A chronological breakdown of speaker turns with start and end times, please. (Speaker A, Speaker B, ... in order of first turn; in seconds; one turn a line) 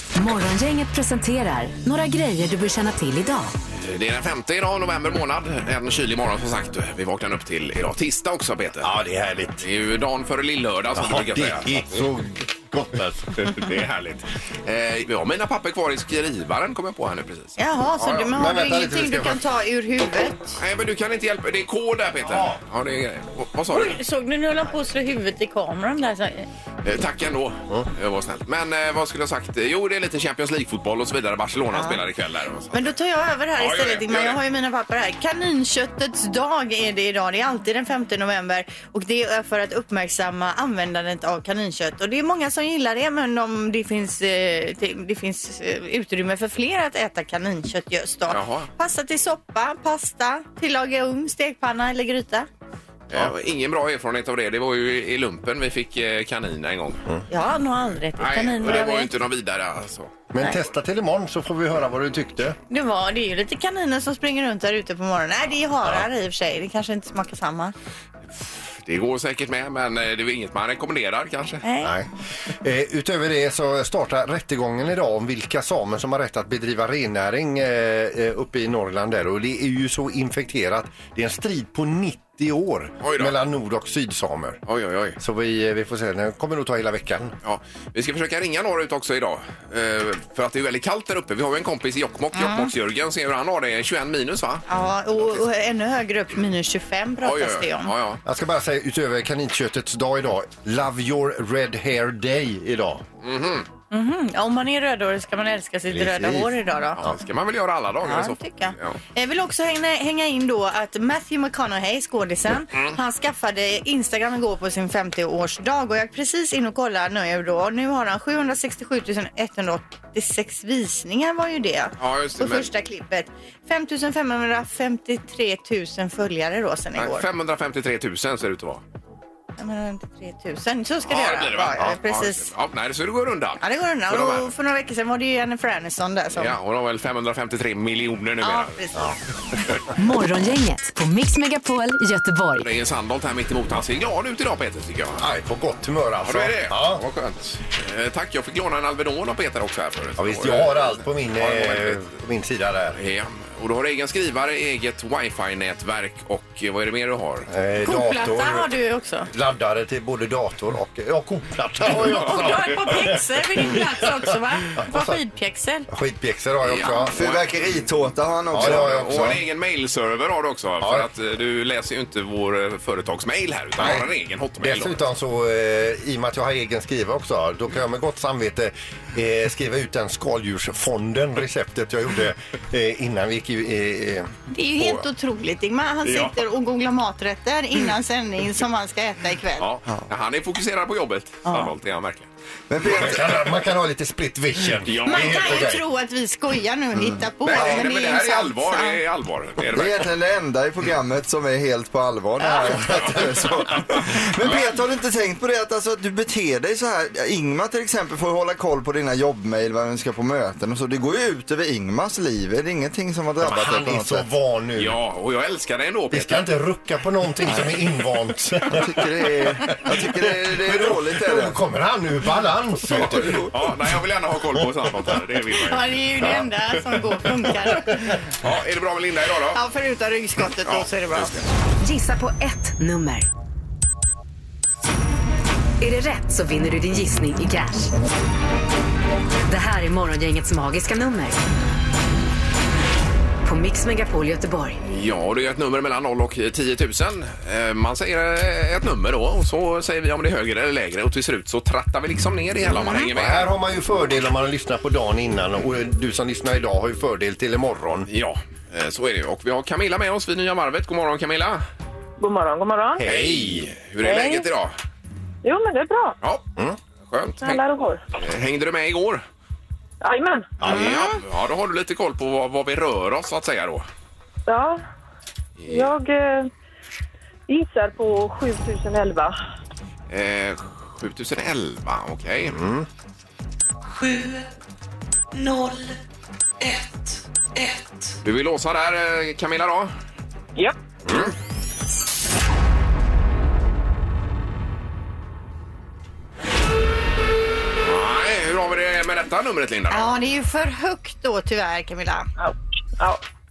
Speaker A: 0.1-3.5
Speaker B: 3.7-8.9
Speaker C: 8.8-9.6
Speaker B: 9.6-12.1
Speaker C: 10.9-13.5
Speaker B: 13.3-18.3
Speaker D: 17.6-20.6
Speaker C: 18.3-19.4
Speaker B: 20.6-24.0
Speaker C: 22.2-22.6
Speaker D: 23.7-26.5
Speaker B: 26.8-32.9
Speaker D: 31.7-32.0
Speaker D: 32.7-52.5
Speaker B: 33.6-34.4
Speaker B: 48.3-48.7
Speaker B: 53.1-57.0
Speaker D: 57.3-59.1
Speaker B: 58.2-60.2
Speaker C: 60.3-62.6
Speaker D: 62.7-67.7
Speaker B: 68.8-71.6
Speaker D: 71.6-71.9
Speaker C: 71.8-84.6
Speaker B: 83.0-83.3
Speaker B: 84.7-85.2
Speaker C: 85.2-87.3
Speaker B: 87.4-94.6
Speaker D: 92.3-92.7
Speaker D: 94.7-97.9
Speaker B: 97.2-98.2
Speaker C: 98.2-103.0
Speaker B: 103.2-103.7
Speaker D: 103.9-107.0
Speaker C: 105.9-106.6
Speaker B: 107.0-109.0
Speaker D: 108.0-127.2
Speaker B: 122.0-122.7
Speaker B: 127.0-128.8
Speaker D: 129.6-132.5
Speaker B: 131.1-134.5
Speaker D: 133.6-136.5
Speaker B: 136.3-138.8
Speaker D: 138.4-139.6
Speaker A: 139.9-142.7
Speaker B: 142.6-145.2
Speaker C: 145.2-147.0
Speaker B: 146.2-152.0
Speaker C: 150.2-153.0
Speaker B: 152.9-157.5
Speaker C: 157.5-158.7
Speaker D: 157.8-159.3
Speaker C: 159.3-163.8
Speaker D: 161.9-165.9
Speaker B: 162.0-162.6
Speaker C: 164.7-165.2
Speaker C: 165.9-167.2
Speaker B: 166.6-167.4
Speaker E: 167.1-169.3
Speaker C: 168.5-169.4
Speaker B: 168.5-175.0
Speaker C: 170.8-171.1
Speaker C: 173.8-185.0
Speaker D: 184.5-189.7
Speaker B: 186.1-186.3
Speaker B: 189.6-192.3
Speaker D: 191.4-191.7
Speaker E: 192.7-193.2
Speaker C: 192.8-195.8
Speaker B: 192.9-193.2
Speaker B: 194.8-195.6
Speaker D: 195.0-199.0
Speaker B: 197.4-200.1
Speaker C: 197.6-197.8
Speaker E: 199.7-214.2
Speaker C: 202.9-203.2
Speaker C: 213.4-215.0
Speaker B: 214.8-216.4
Speaker C: 216.1-223.7
Speaker E: 218.7-221.6
Speaker B: 222.9-225.8
Speaker E: 223.1-223.4
Speaker D: 225.6-228.1
Speaker B: 228.4-229.6
Speaker D: 229.5-231.3
Speaker B: 230.6-231.4
Speaker A: 231.8-233.3
Speaker A: 235.8-237.9
Speaker A: 239.5-241.4
Speaker A: 243.4-244.8
Speaker B: 244.8-253.5
Speaker C: 252.7-258.1
Speaker B: 258.1-261.6
Speaker F: 262.2-263.1
Speaker C: 263.0-263.7
Speaker B: 263.0-264.7
Speaker F: 264.0-264.4
Speaker F: 265.4-266.2
Speaker B: 267.1-269.2
Speaker F: 267.4-268.0
Speaker F: 270.0-270.5
Speaker C: 270.6-271.0
Speaker B: 270.6-273.9
Speaker D: 270.7-271.1
Speaker F: 274.5-274.8
Speaker B: 275.6-275.9
Speaker F: 275.7-276.5
Speaker F: 277.5-279.4
Speaker B: 280.1-282.6
Speaker C: 282.5-282.9
Speaker G: 283.9-284.4
Speaker G: 285.3-285.9
Speaker G: 286.6-288.1
Speaker B: 288.2-289.9
Speaker C: 291.1-291.3
Speaker B: 297.8-300.2
Speaker D: 299.9-302.3
Speaker F: 302.4-303.2